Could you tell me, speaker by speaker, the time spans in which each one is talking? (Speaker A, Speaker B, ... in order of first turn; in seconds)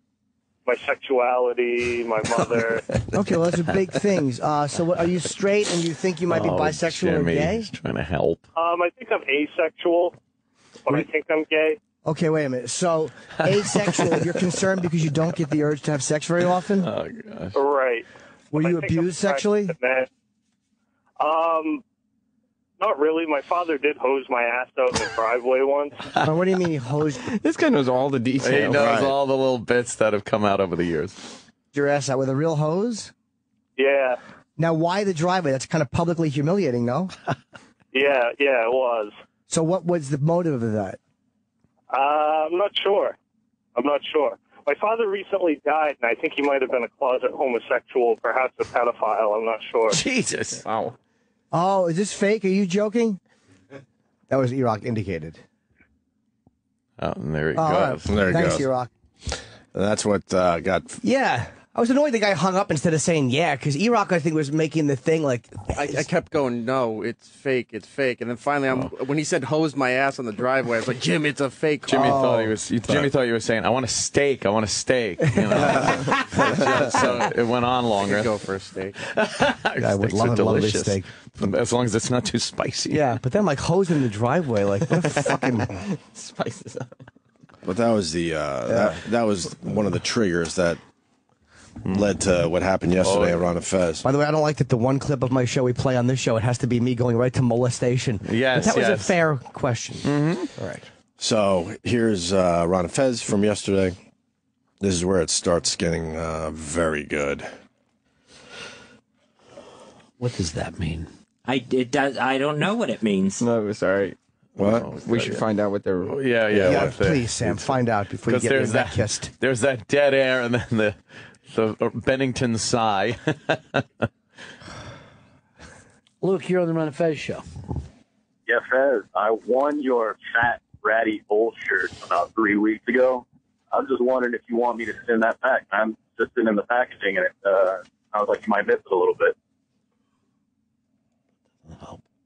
Speaker A: 0.7-2.9, 8.6-10.1, 10.8-11.8, 17.5-20.1, 21.2-21.8, 22.8-26.0, 33.8-34.2, 37.9-39.1, 41.9-43.1, 43.8-50.0
Speaker B: 3.1-7.7, 12.0-16.9, 18.5-19.7, 26.2-27.3, 31.7-33.1, 34.6-37.1, 39.5-41.0, 51.5-53.2, 54.3-55.4, 57.5-58.9, 61.0-66.1, 72.0-72.5, 75.5-75.9, 79.8-81.1, 82.9-85.7, 88.7-89.0, 94.0-100.8, 116.7-119.3
Speaker C: 6.3-8.4, 16.8-17.6, 28.4-31.4, 49.9-50.6, 57.0-58.1, 71.8-78.3, 79.0-83.0, 93.0-93.5, 98.2-99.2, 100.0-100.5, 114.6-115.4, 116.1-124.1
Speaker D: 27.2-28.9, 50.6-50.9, 84.9-87.0, 113.4-114.2, 115.0-116.9
Speaker E: 28.7-29.1, 58.1-58.7, 59.2-61.0, 87.6-90.8, 91.9-94.0, 101.2-104.0, 104.8-107.5, 114.6-114.9
Speaker F: 65.7-72.3, 76.8-77.3, 78.0-79.0
Speaker G: 110.2-111.1, 126.2-127.4, 141.7-142.0
Speaker H: 111.5-113.4
Speaker I: 128.5-139.3